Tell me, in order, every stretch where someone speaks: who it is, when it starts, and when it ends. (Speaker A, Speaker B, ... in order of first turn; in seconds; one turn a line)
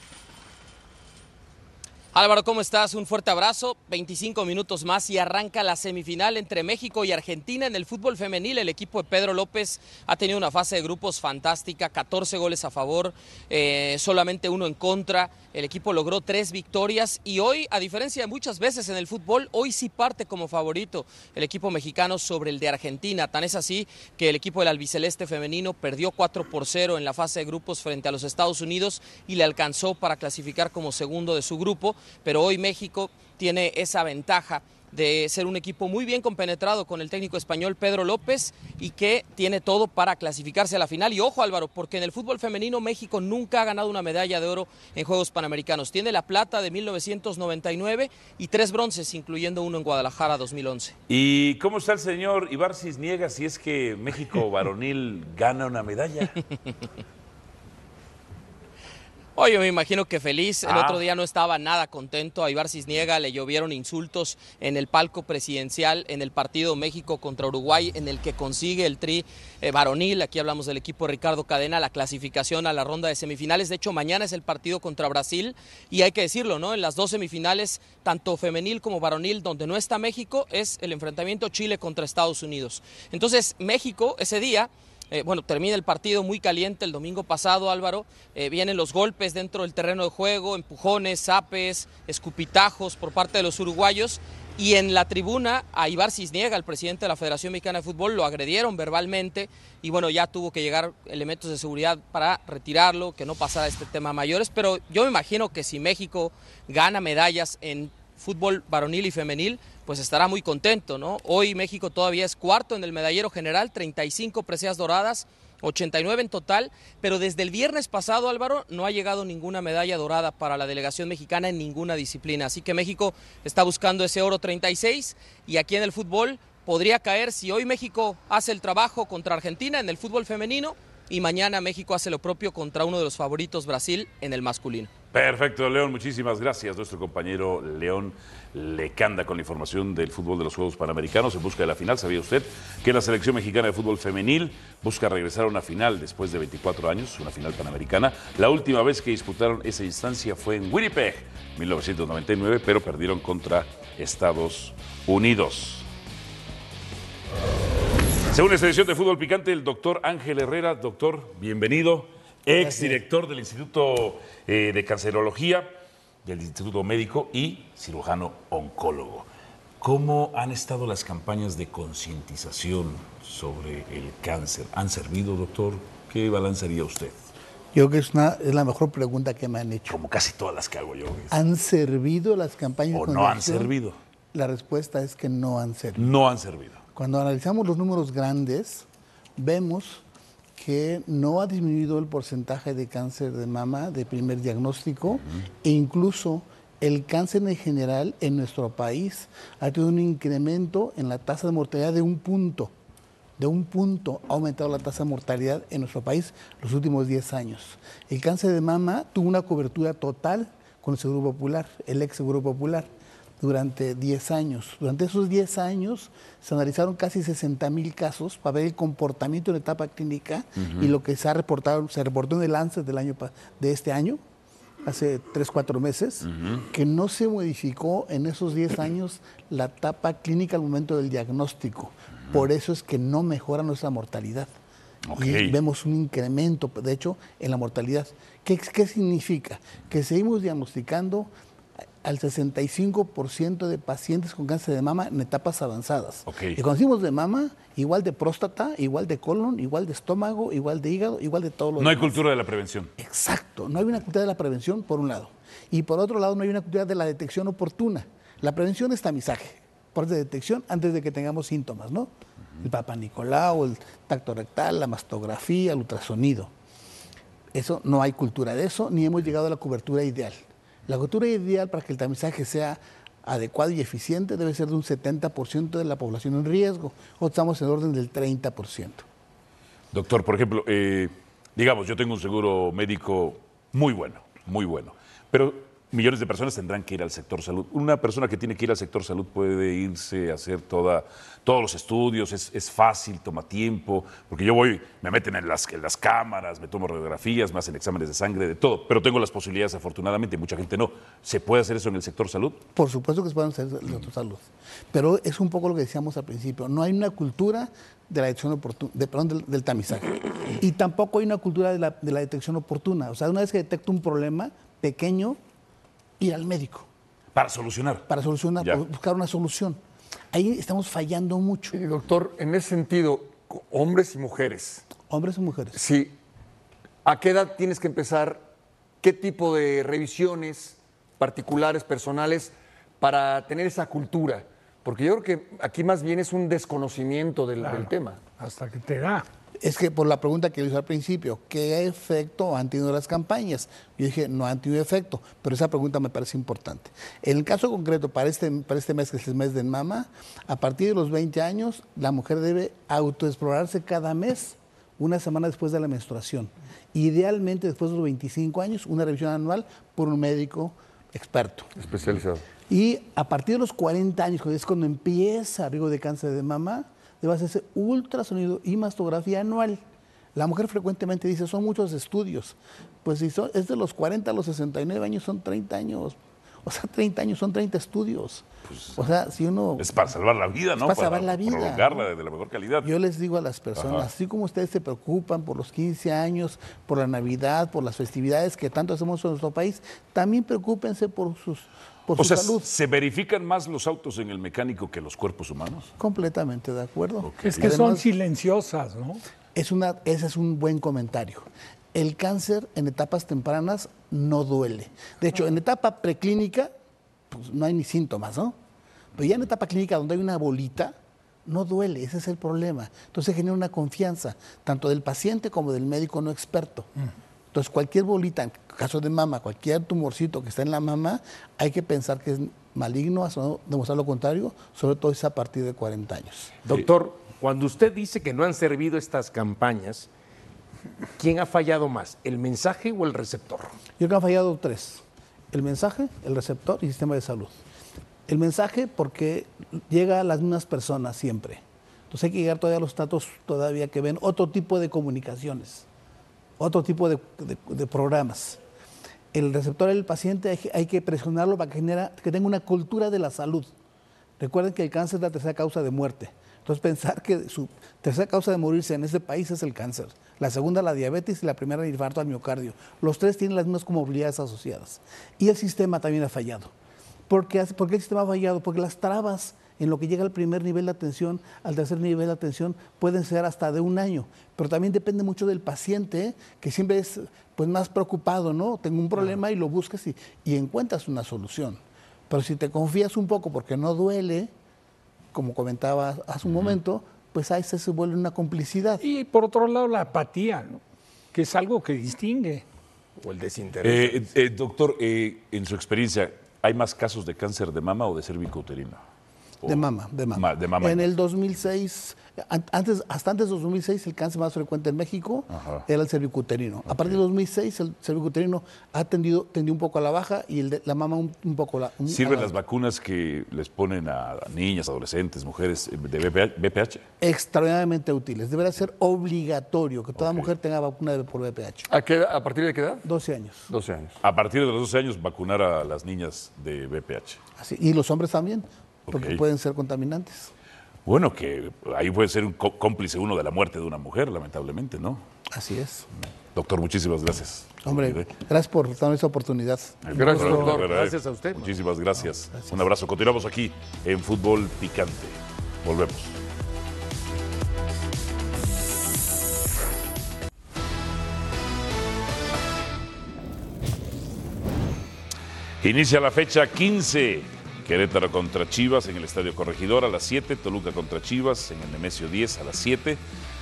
Speaker A: 2.1-51.0
Speaker B: 51.1-56.4
Speaker A: 59.4-134.9
Speaker B: 60.6-61.0
Speaker B: 135.1-155.9
Speaker B: 158.3-165.7
Speaker C: 162.5-163.0
Speaker B: 166.2-169.3
Speaker B: 169.8-177.2
Speaker C: 177.7-180.0
Speaker B: 179.9-181.3
Speaker C: 181.3-183.7
Speaker B: 182.9-184.0
Speaker C: 184.3-186.1
Speaker B: 186.0-186.8
Speaker C: 186.9-188.9
Speaker C: 189.4-190.0
Speaker C: 190.6-202.7
Speaker C: 203.4-212.9
Speaker C: 213.4-224.2
Speaker B: 220.6-220.9
Speaker C: 224.8-234.5
Speaker B: 226.2-226.7
Speaker B: 235.1-235.5
Speaker C: 235.2-241.3
Speaker C: 242.0-252.2
Speaker B: 246.3-246.6
Speaker B: 251.8-252.9
Speaker C: 253.0-262.1
Speaker C: 262.6-266.5
Speaker C: 267.5-279.0
Speaker B: 279.9-302.6
Speaker C: 302.8-315.4
Speaker C: 316.2-316.9
Speaker B: 317.4-318.1
Speaker C: 318.1-319.8
Speaker C: 320.3-321.8
Speaker D: 321.7-324.9
Speaker C: 325.0-325.8
Speaker D: 325.7-326.2
Speaker D: 327.1-328.5
Speaker D: 329.0-338.2
Speaker E: 337.6-339.3
Speaker C: 339.6-361.7
Speaker D: 361.8-362.4
Speaker C: 362.7-369.8
Speaker C: 370.4-379.9
Speaker B: 378.7-379.0
Speaker B: 379.8-382.9
Speaker C: 380.8-382.1
Speaker C: 382.8-392.7
Speaker B: 383.8-384.1
Speaker B: 392.2-395.9
Speaker C: 396.0-398.1
Speaker B: 397.2-397.7
Speaker E: 397.4-399.2
Speaker C: 399.6-406.7
Speaker C: 407.3-408.6
Speaker C: 409.1-410.9
Speaker C: 411.5-416.9
Speaker C: 417.5-426.6
Speaker F: 426.6-430.1
Speaker F: 431.2-433.7
Speaker C: 434.0-437.6
Speaker C: 438.3-445.9
Speaker C: 446.6-448.6
Speaker C: 449.3-453.7
Speaker C: 454.4-466.7
Speaker C: 467.3-484.5
Speaker C: 485.3-489.0
Speaker E: 489.0-490.8
Speaker E: 491.3-492.6
Speaker F: 493.2-494.2
Speaker B: 493.8-499.0
Speaker B: 499.6-501.1
Speaker C: 499.6-512.5
Speaker B: 505.5-505.9
Speaker B: 506.9-507.2
Speaker B: 512.1-517.0
Speaker C: 517.2-521.9
Speaker B: 520.2-520.5
Speaker D: 521.9-523.0
Speaker C: 523.0-523.7
Speaker D: 523.7-524.2
Speaker B: 524.2-527.4
Speaker C: 527.6-530.5
Speaker B: 529.1-529.4
Speaker B: 531.1-535.2
Speaker C: 535.5-536.1
Speaker B: 536.5-538.3
Speaker C: 537.8-540.1
Speaker B: 540.0-546.4
Speaker D: 540.1-540.9
Speaker F: 540.1-541.8
Speaker B: 555.8-563.2